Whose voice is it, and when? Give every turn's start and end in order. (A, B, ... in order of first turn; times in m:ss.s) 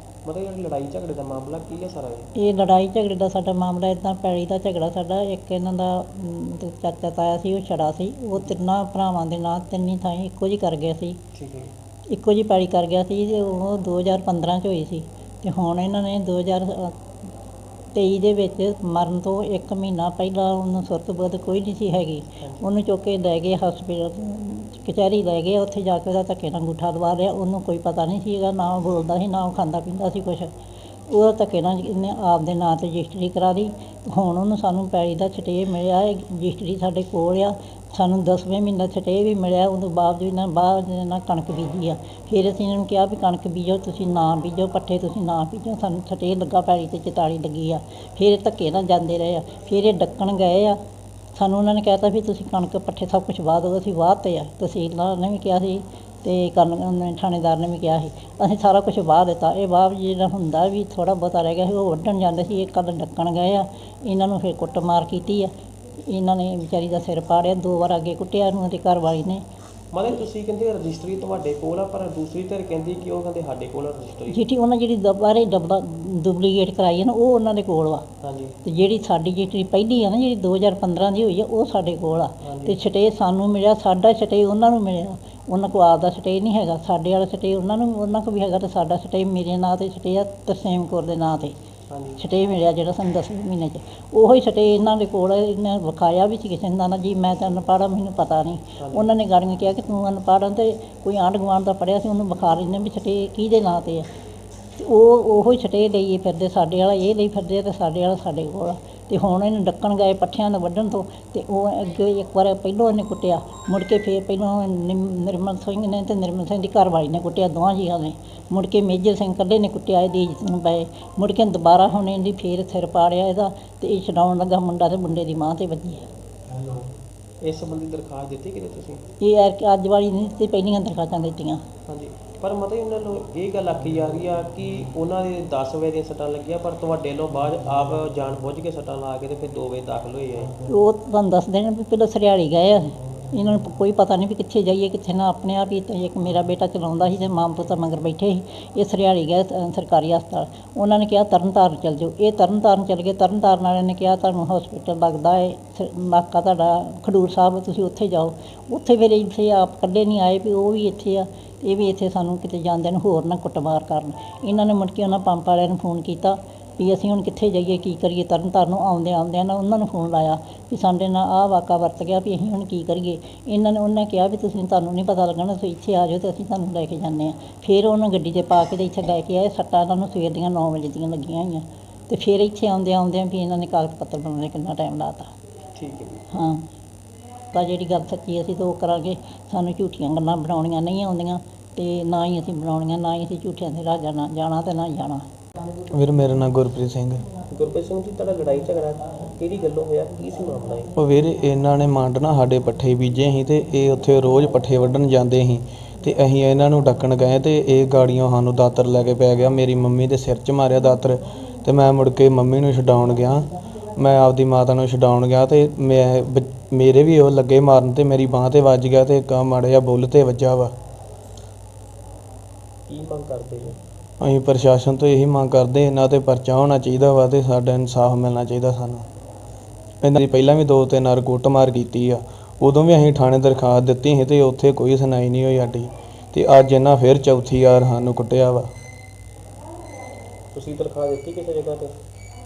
0:00.2-0:02.3 A
0:02.4-0:11.2 B
0:11.3-0:11.7 A
0:12.1-0:17.0 B
0:17.9-0:30.5 B
0:31.1-0:50.8 B
0:51.3-1:05.5 B
1:06.1-1:09.4 B
1:09.9-1:14.4 A
1:14.3-1:18.0 B
1:18.2-1:18.6 A
1:18.6-1:31.5 B
1:22.4-1:22.8 A
1:31.9-1:32.2 A
1:32.2-1:44.1 B
1:38.8-1:39.1 A
1:44.8-2:06.1 B
2:07.4-2:09.0 A
2:09.2-2:11.6 B
2:11.9-2:20.5 A
2:20.7-3:05.3 B
3:05.8-3:06.2 A
3:06.3-3:06.6 B
3:07.5-3:15.2 B
3:15.9-3:17.2 C
3:17.5-3:20.9 A
3:20.9-3:40.7 C
3:42.9-3:43.8 A
3:44.2-3:49.0 C
3:50.0-3:58.7 C
4:00.5-4:01.9 A